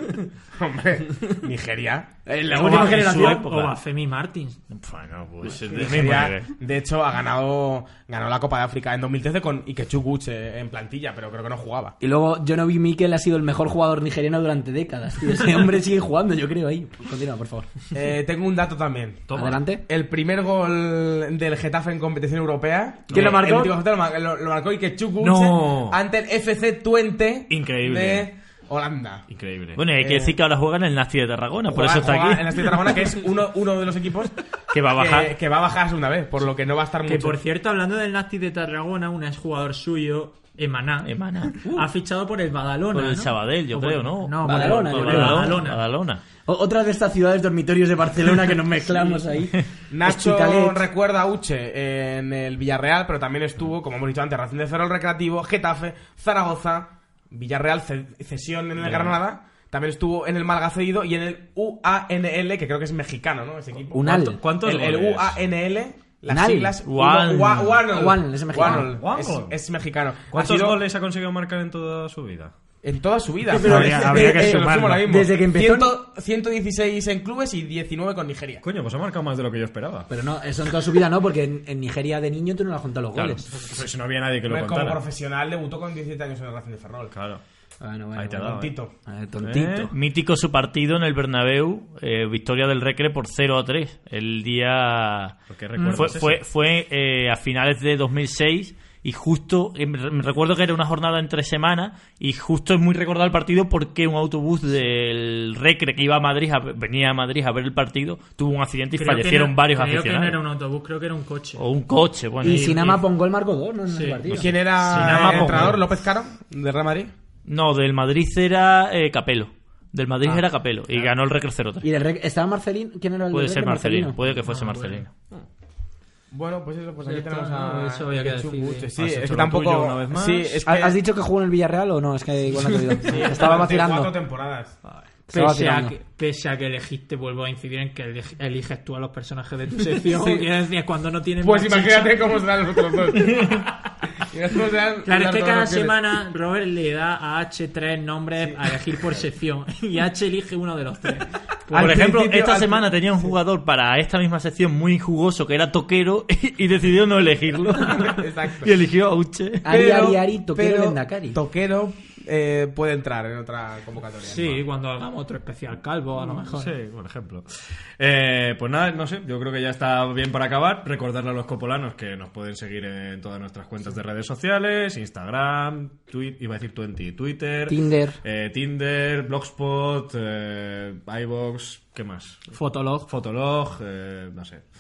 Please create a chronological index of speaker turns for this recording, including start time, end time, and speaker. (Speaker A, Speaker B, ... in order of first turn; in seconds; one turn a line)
Speaker A: 0.5-2.1
Speaker B: 2.2-3.4
Speaker C: 2.5-4.6
Speaker D: 2.6-3.7
Speaker D: 4.7-6.5
Speaker A: 5.7-11.9
Speaker B: 12.0-17.7
Speaker A: 17.9-19.3
Speaker E: 19.3-19.6
Speaker B: 19.4-19.8
Speaker A: 19.9-29.3
Speaker E: 23.1-23.5
Speaker B: 23.1-23.8
Speaker E: 25.2-26.0
Speaker E: 27.5-28.3
Speaker E: 29.3-29.8
Speaker D: 29.8-33.0
Speaker A: 29.9-30.4
Speaker A: 31.6-37.4
Speaker D: 34.7-35.4
Speaker C: 37.0-45.8
Speaker D: 41.0-41.7
Speaker D: 42.9-46.2
Speaker B: 44.4-45.6
Speaker B: 46.5-50.8
Speaker A: 49.9-70.8
Speaker E: 58.8-59.1
Speaker B: 63.9-64.4
Speaker E: 64.0-65.4
Speaker B: 66.3-66.7
Speaker D: 66.8-67.8
Speaker B: 67.9-68.9
Speaker E: 68.7-69.6
Speaker E: 70.3-72.5
Speaker A: 72.8-78.6
Speaker C: 73.5-75.1
Speaker B: 73.5-76.0
Speaker E: 78.6-80.1
Speaker B: 80.1-83.5
Speaker E: 83.2-85.0
Speaker A: 84.5-87.1
Speaker E: 87.1-87.4
Speaker B: 87.8-89.9
Speaker E: 88.2-88.7
Speaker A: 88.4-88.9
Speaker E: 89.4-89.9
Speaker D: 89.9-110.4
Speaker E: 95.5-96.4
Speaker C: 95.8-96.0
Speaker C: 109.0-111.6
Speaker D: 111.6-112.7
Speaker B: 112.4-114.6
Speaker C: 112.4-113.0
Speaker C: 113.9-115.2
Speaker A: 114.3-117.1
Speaker D: 114.8-115.8
Speaker E: 114.9-115.8
Speaker D: 117.5-121.8
Speaker B: 121.8-124.2
Speaker D: 123.3-125.1
Speaker C: 124.4-125.0
Speaker A: 126.3-131.0
Speaker C: 127.0-128.9
Speaker E: 128.9-130.6
Speaker B: 130.6-134.1
Speaker A: 133.0-134.8
Speaker C: 135.3-142.2
Speaker B: 135.3-135.9
Speaker A: 140.1-140.5
Speaker A: 141.4-146.0
Speaker C: 145.0-151.9
Speaker D: 151.7-159.7
Speaker A: 151.7-152.9
Speaker A: 157.9-158.7
Speaker B: 159.6-161.4
Speaker A: 159.7-164.6
Speaker C: 164.3-166.7
Speaker E: 166.2-184.6
Speaker B: 177.7-178.2
Speaker C: 182.5-183.1